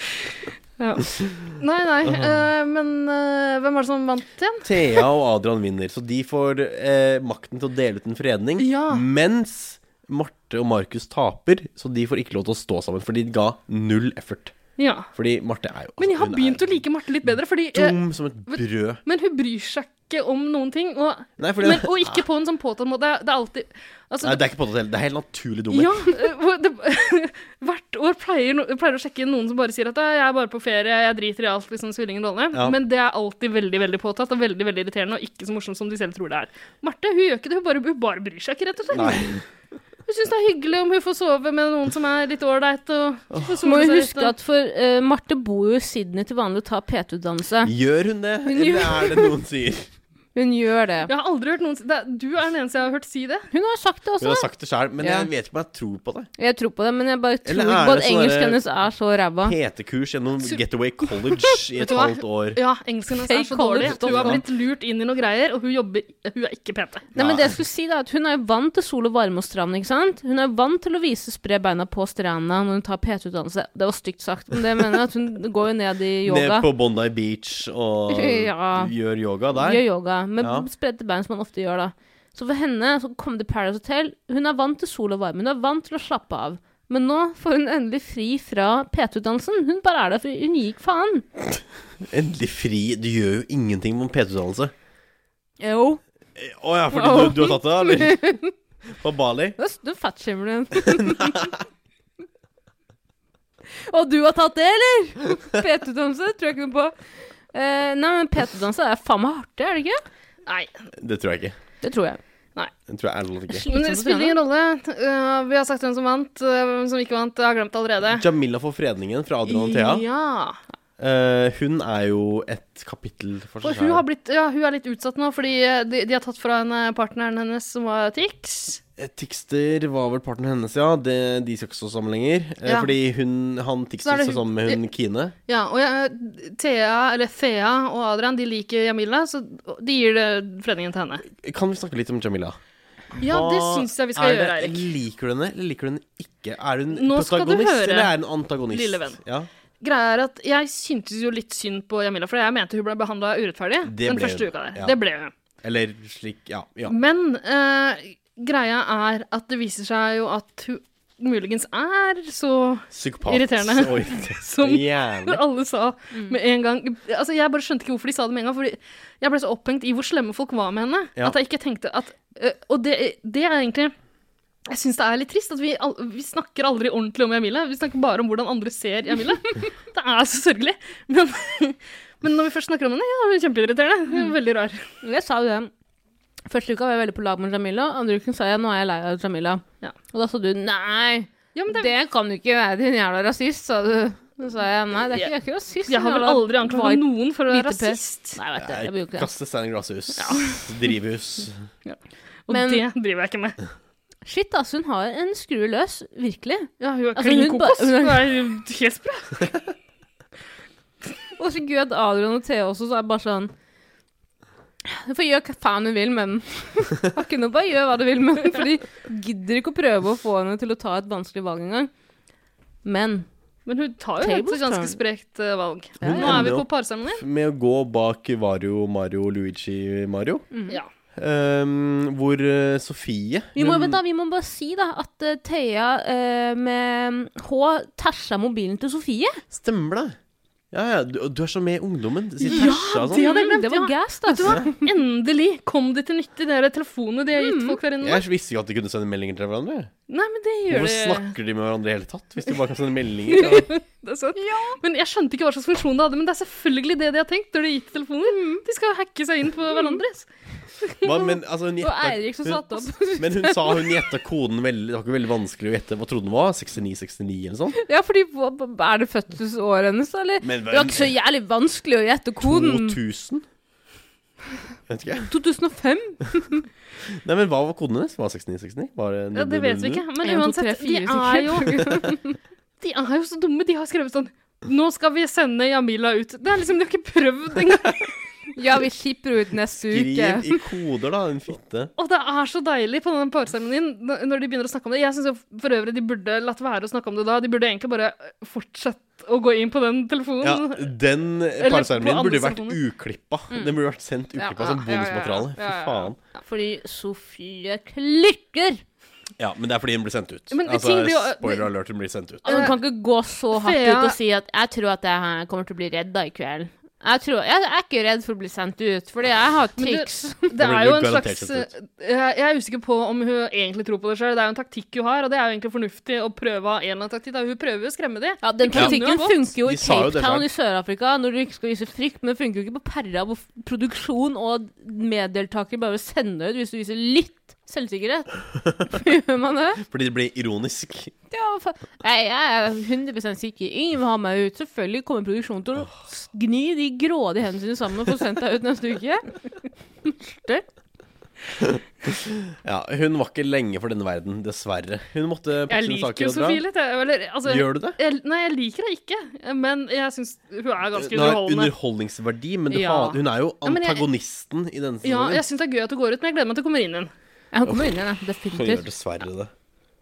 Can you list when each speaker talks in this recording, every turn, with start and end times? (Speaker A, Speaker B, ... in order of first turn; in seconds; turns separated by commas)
Speaker A: 0.8-5.0, Speaker B: 4.6-14.5, Speaker A: 8.6-9.0, Speaker A: 14.8-15.1, Speaker B: 15.1-16.8, Speaker A: 16.0-18.0, Speaker B: 17.7-19.0, Speaker A: 18.5-24.4, Speaker B: 21.4-22.2, Speaker B: 24.2-26.0, Speaker A: 25.7-39.4, Speaker B: 38.9-39.4, Speaker A: 40.0-44.3, Speaker C: 43.6-47.7, Speaker B: 47.6-49.9, Speaker C: 48.5-49.3, Speaker C: 50.3-51.1, Speaker A: 51.1-53.5, Speaker C: 53.5-54.5, Speaker B: 54.2-56.3, Speaker C: 55.0-55.3, Speaker C: 56.4-59.5, Speaker B: 57.4-58.6, Speaker B: 59.4-62.6, Speaker A: 61.8-67.1, Speaker C: 63.1-64.4, Speaker B: 63.8-64.4, Speaker B: 67.1-67.5, Speaker C: 67.2-76.7, Speaker B: 76.2-79.8, Speaker C: 78.1-78.9, Speaker C: 79.5-91.3, Speaker B: 80.4-80.7, Speaker B: 92.1-94.7, Speaker C: 95.6-96.0, Speaker B: 96.3-98.2, Speaker C: 96.9-98.5, Speaker B: 99.0-99.6, Speaker C: 99.6-101.5, Speaker B: 101.0-101.5, Speaker C: 103.7-106.9, Speaker C: 107.5-110.0, Speaker A: 110.5-110.8, Speaker B: 111.0-111.5, Speaker C: 111.8-112.2, Speaker B: 112.9-113.7, Speaker C: 113.6-114.4, Speaker A: 113.7-118.2, Speaker B: 118.1-120.0, Speaker A: 119.5-120.6, Speaker B: 121.0-124.0, Speaker A: 123.6-128.8, Speaker B: 129.0-135.3, Speaker A: 132.6-132.9, Speaker A: 134.0-134.8, Speaker A: 135.5-141.2, Speaker B: 141.3-142.6, Speaker B: 143.2-149.5, Speaker A: 143.2-144.8, Speaker A: 146.9-148.1, Speaker A: 148.7-149.2, Speaker A: 149.8-155.3, Speaker B: 153.8-155.0, Speaker B: 155.6-156.9, Speaker A: 156.9-173.9, Speaker B: 162.9-165.4, Speaker A: 174.7-184.9, Speaker C: 185.0-185.7, Speaker C: 186.5-199.3, Speaker A: 191.5-191.9, Speaker A: 195.9-198.4, Speaker B: 198.6-201.7, Speaker A: 200.2-200.6, Speaker A: 201.8-203.6, Speaker C: 202.5-202.8, Speaker C: 204.2-208.3, Speaker A: 206.8-209.6, Speaker C: 211.4-213.5, Speaker C: 214.8-221.9, Speaker C: 222.8-223.3, Speaker A: 223.7-227.2, Speaker C: 224.2-225.0, Speaker B: 226.0-230.4, Speaker C: 226.0-226.5, Speaker C: 230.5-230.8, Speaker B: 231.1-234.0, Speaker C: 233.5-239.4, Speaker B: 239.5-240.2, Speaker B: 240.7-243.2, Speaker A: 242.4-248.2, Speaker C: 242.4-244.7, Speaker C: 247.3-247.8, Speaker B: 248.0-249.9, Speaker A: 250.1-251.3, Speaker B: 250.7-253.7, Speaker A: 253.3-260.3, Speaker C: 254.4-254.8, Speaker C: 258.3-258.6, Speaker C: 259.7-260.0, Speaker B: 261.0-267.8, Speaker C: 261.8-264.0, Speaker C: 267.8-273.0, Speaker B: 270.4-271.1, Speaker B: 272.4-273.4, Speaker B: 274.9-275.3, Speaker C: 275.3-276.7, Speaker B: 277.1-280.0, Speaker A: 279.3-282.1, Speaker C: 280.2-282.3, Speaker A: 282.8-288.1, Speaker C: 288.6-290.6, Speaker B: 289.9-291.9, Speaker A: 292.0-300.9, Speaker B: 300.4-306.2, Speaker A: 301.6-302.8, Speaker C: 303.5-303.8, Speaker A: 304.4-306.4, Speaker C: 306.4-308.8, Speaker B: 309.4-312.7, Speaker A: 310.5-311.7, Speaker A: 312.4-312.7, Speaker C: 312.4-320.4, Speaker A: 313.5-314.2, Speaker A: 319.8-329.4, Speaker B: 320.6-321.7, Speaker C: 328.4-339.8, Speaker B: 328.7-330.5, Speaker B: 339.8-341.1, Speaker C: 341.3-349.2, Speaker C: 350.0-350.6, Speaker B: 352.6-356.6, Speaker A: 355.7-361.7, Speaker B: 357.5-358.0, Speaker B: 360.9-365.4, Speaker A: 362.7-364.1, Speaker A: 365.0-367.1, Speaker C: 367.5-368.8, Speaker B: 368.5-369.5